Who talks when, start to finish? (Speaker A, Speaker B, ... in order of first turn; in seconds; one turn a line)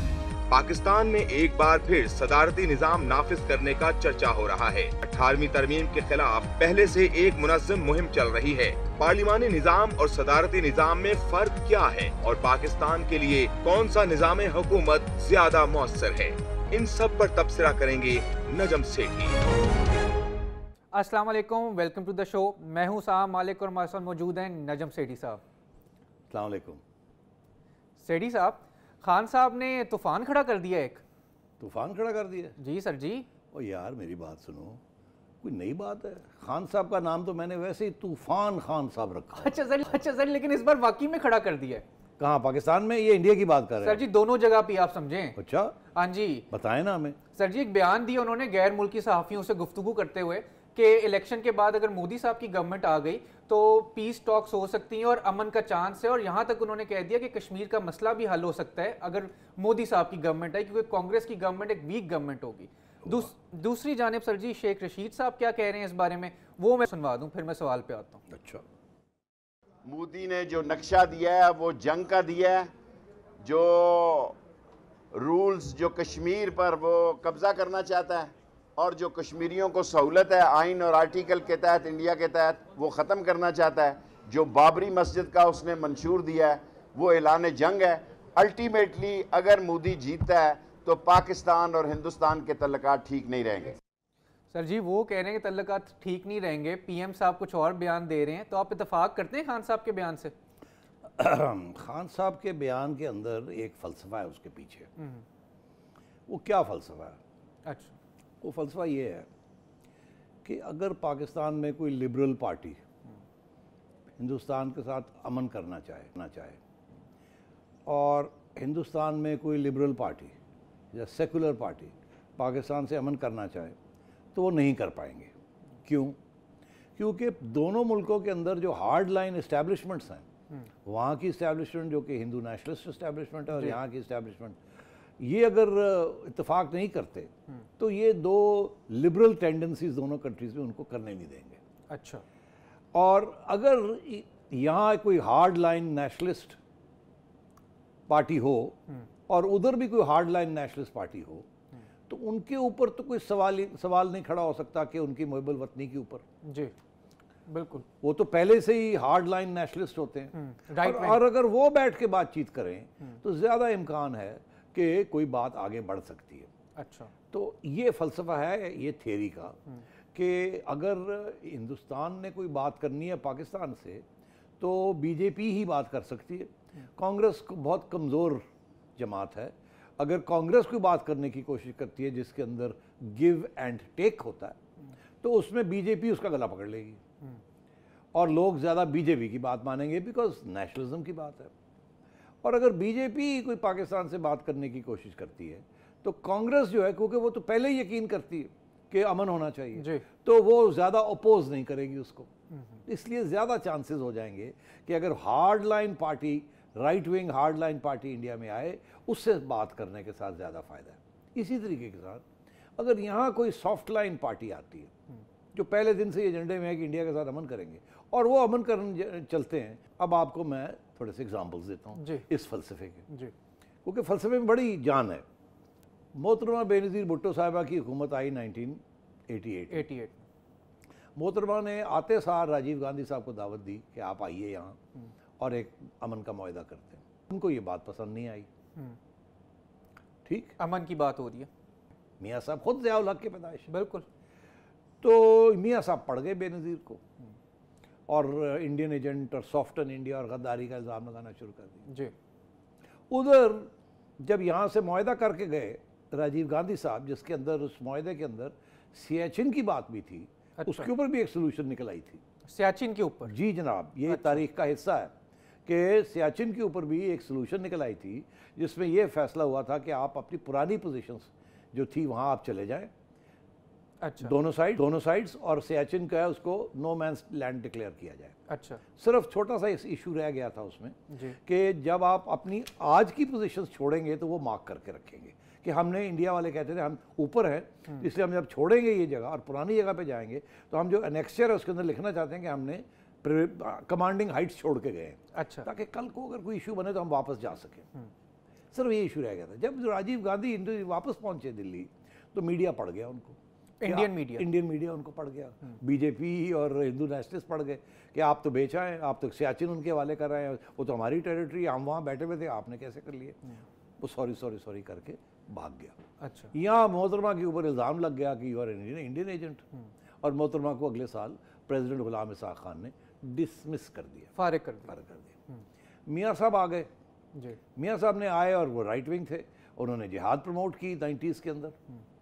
Speaker A: 0.5-19.4
Speaker B: 20.9-25.4
Speaker C: 26.3-26.8
Speaker B: 28.0-31.0
Speaker C: 31.6-32.6
Speaker B: 32.6-33.3
Speaker C: 33.5-34.8
Speaker C: 35.4-39.6
Speaker B: 39.4-41.9
Speaker C: 42.2-44.1
Speaker B: 43.8-45.4
Speaker C: 45.4-45.8
Speaker B: 46.0-46.5
Speaker C: 46.5-47.2
Speaker B: 47.4-68.2
Speaker C: 68.3-68.6
Speaker D: 69.8-72.7
Speaker D: 73.4-74.4
Speaker D: 75.1-93.8
Speaker B: 94.5-100.3
Speaker C: 101.2-104.9
Speaker B: 105.0-105.2
Speaker C: 106.3-107.2
Speaker B: 107.7-107.9
Speaker C: 108.4-109.3
Speaker C: 110.5-112.8
Speaker C: 114.2-116.6
Speaker C: 117.9-120.3
Speaker C: 120.9-123.8
Speaker C: 124.3-125.3
Speaker C: 125.8-126.2
Speaker C: 127.0-130.3
Speaker C: 130.8-134.6
Speaker C: 135.2-141.6
Speaker B: 141.9-142.2
Speaker C: 142.9-146.6
Speaker C: 148.1-148.8
Speaker C: 149.3-151.5
Speaker C: 152.1-156.2
Speaker B: 156.4-156.7
Speaker B: 157.5-157.8
Speaker C: 158.0-166.5
Speaker B: 160.3-161.2
Speaker B: 166.8-167.1
Speaker C: 167.3-169.6
Speaker C: 170.1-174.1
Speaker C: 174.6-178.4
Speaker C: 179.0-184.6
Speaker C: 185.2-187.0
Speaker C: 188.1-191.5
Speaker C: 192.4-202.3
Speaker B: 199.8-200.1
Speaker B: 202.5-202.8
Speaker C: 202.9-212.2
Speaker C: 212.8-214.9
Speaker C: 215.5-223.1
Speaker B: 222.0-222.3
Speaker C: 223.8-225.2
Speaker C: 226.1-229.9
Speaker B: 229.7-230.2
Speaker C: 231.2-234.8
Speaker C: 235.4-238.5
Speaker C: 240.2-240.5
Speaker B: 240.6-241.5
Speaker C: 242.2-243.7
Speaker B: 243.7-244.1
Speaker C: 245.0-247.0
Speaker C: 248.1-251.8
Speaker B: 251.9-252.1
Speaker C: 253.1-262.2
Speaker B: 260.6-260.9
Speaker B: 262.5-263.3
Speaker C: 263.3-265.1
Speaker B: 264.1-264.4
Speaker C: 265.7-272.9
Speaker B: 274.0-274.3
Speaker C: 274.2-278.4
Speaker B: 278.5-278.8
Speaker C: 279.0-297.9
Speaker B: 281.1-281.4
Speaker B: 295.3-295.7
Speaker C: 298.7-313.4
Speaker B: 303.8-304.5
Speaker C: 314.0-316.0
Speaker B: 316.2-316.5
Speaker C: 316.5-319.6
Speaker C: 320.2-324.3
Speaker B: 324.4-324.9
Speaker C: 324.9-325.3
Speaker C: 326.1-326.9
Speaker C: 327.8-331.8